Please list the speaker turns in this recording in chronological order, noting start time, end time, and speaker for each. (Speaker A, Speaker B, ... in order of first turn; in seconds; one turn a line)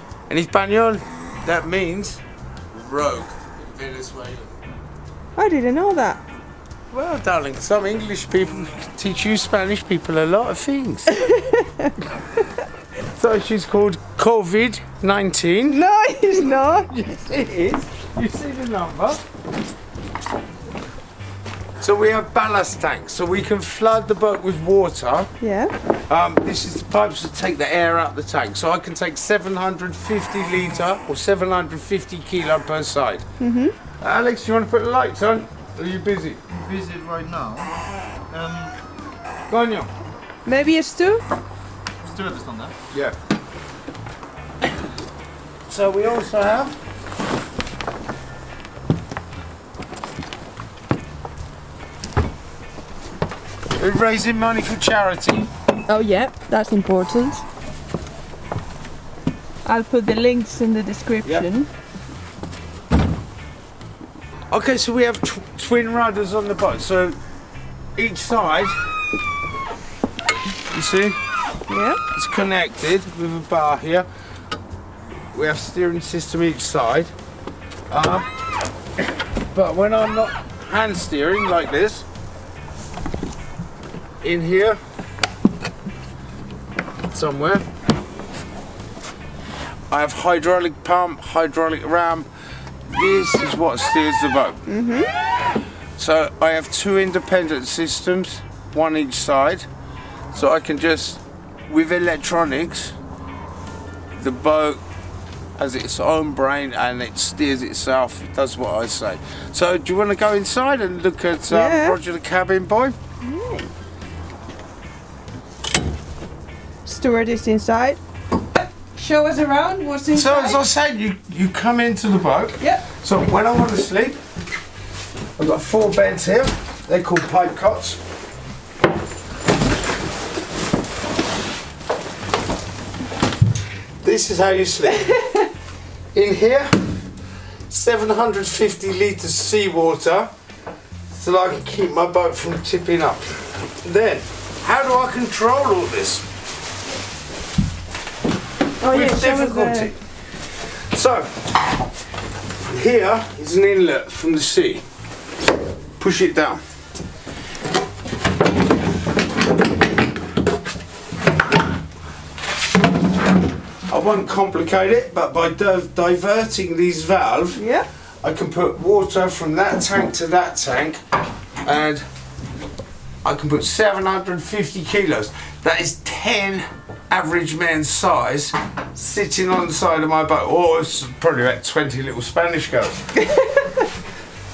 Speaker A: 0.3-4.5
Speaker B: 5.3-6.2
Speaker A: 6.9-11.2
Speaker B: 11.2-11.9
Speaker A: 13.0-15.8
Speaker B: 15.7-16.9
Speaker A: 16.8-19.2
Speaker A: 21.8-25.3
Speaker B: 25.4-25.7
Speaker A: 26.1-33.2
Speaker B: 33.4-33.8
Speaker A: 34.0-36.4
Speaker C: 36.5-37.7
Speaker C: 38.3-38.7
Speaker A: 39.5-39.9
Speaker B: 40.5-41.2
Speaker C: 42.0-42.7
Speaker A: 42.9-43.1
Speaker A: 45.6-46.8
Speaker A: 53.7-55.5
Speaker B: 55.8-57.4
Speaker B: 59.6-61.7
Speaker A: 64.5-67.2
Speaker A: 68.0-68.8
Speaker A: 70.7-71.2
Speaker B: 71.7-72.0
Speaker A: 72.1-74.1
Speaker A: 75.3-77.1
Speaker A: 77.9-78.3
Speaker A: 79.3-82.0
Speaker A: 84.2-84.8
Speaker A: 87.1-87.6
Speaker A: 89.9-92.3
Speaker A: 92.9-94.6
Speaker B: 94.7-95.1
Speaker A: 96.0-99.7
Speaker A: 100.3-103.0
Speaker A: 104.1-104.8
Speaker A: 105.6-113.0
Speaker B: 111.5-112.0
Speaker B: 113.2-113.7
Speaker B: 116.8-118.0
Speaker B: 118.8-120.6
Speaker A: 120.1-124.2
Speaker B: 122.6-122.8
Speaker A: 125.4-128.0
Speaker A: 134.0-135.2
Speaker A: 136.1-136.7
Speaker A: 137.7-140.3
Speaker A: 141.1-146.2
Speaker B: 148.8-149.9
Speaker A: 148.9-150.0
Speaker A: 150.7-151.5
Speaker A: 152.6-154.8
Speaker A: 156.0-156.6
Speaker A: 163.9-167.6
Speaker B: 167.6-167.9
Speaker A: 168.2-171.0
Speaker A: 171.6-172.0
Speaker A: 173.2-183.1
Speaker B: 183.4-183.6